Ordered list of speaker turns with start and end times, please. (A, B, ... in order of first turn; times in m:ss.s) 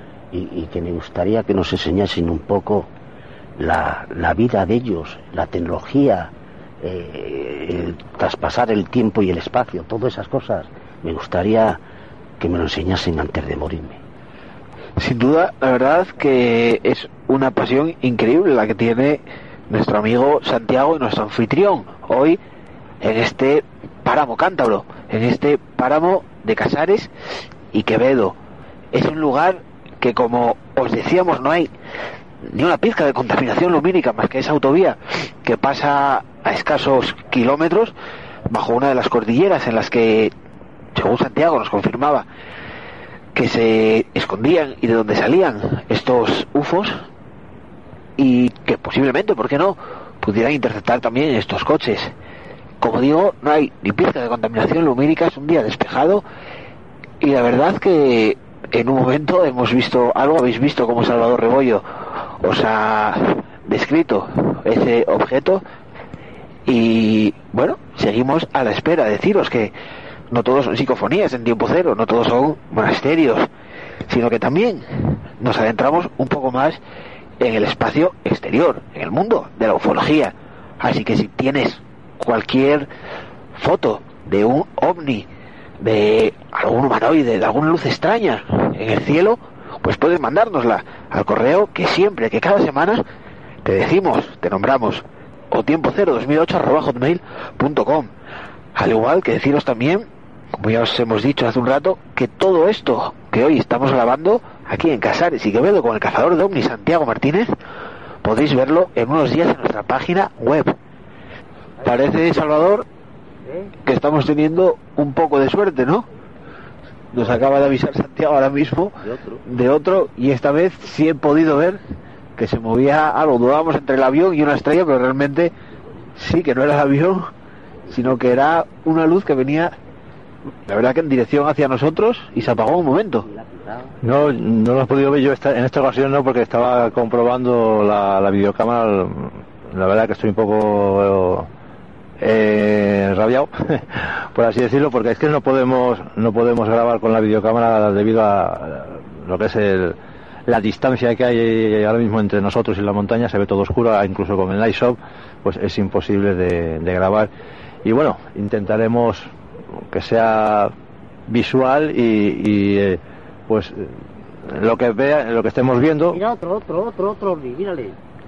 0:00.3-0:02.9 A
0:03.6-0:11.8 A
0:12.4-0:14.0 A
0:15.0-0:22.4 B
0:23.0-0:27.1 B
0:27.7-0:28.4 B
0:28.9-0:31.7 B
0:32.4-0:37.9 B
0:38.5-0:40.3 B
0:41.0-0:42.3 B
0:43.4-0:47.0 B
0:48.2-0:52.1 B
0:52.8-0:56.2 B
0:57.2-1:01.8 B
1:02.4-1:05.6 B
1:06.7-1:09.7 B
1:10.3-1:13.5 B
1:14.1-1:16.8 B
1:17.4-1:22.9 B
1:23.6-1:25.3 B
1:25.8-1:33.0 B
1:33.6-1:38.1 B
1:38.8-1:40.1 B
1:40.6-1:47.5 B
1:48.2-1:50.8 B
1:51.8-1:52.9 B
1:53.8-1:56.1 B
1:57.1-2:01.8 B
1:59.0-1:59.4 A
2:02.4-2:05.5 B
2:06.2-2:07.3 B
2:07.9-2:09.8 B
2:10.7-2:13.3 B
2:13.3-2:14.0 A
2:14.0-2:21.5 C
2:22.2-2:37.3 C
2:37.8-2:39.3 C
2:39.9-2:40.7 C
2:41.3-2:46.2 C
2:46.1-2:48.0 A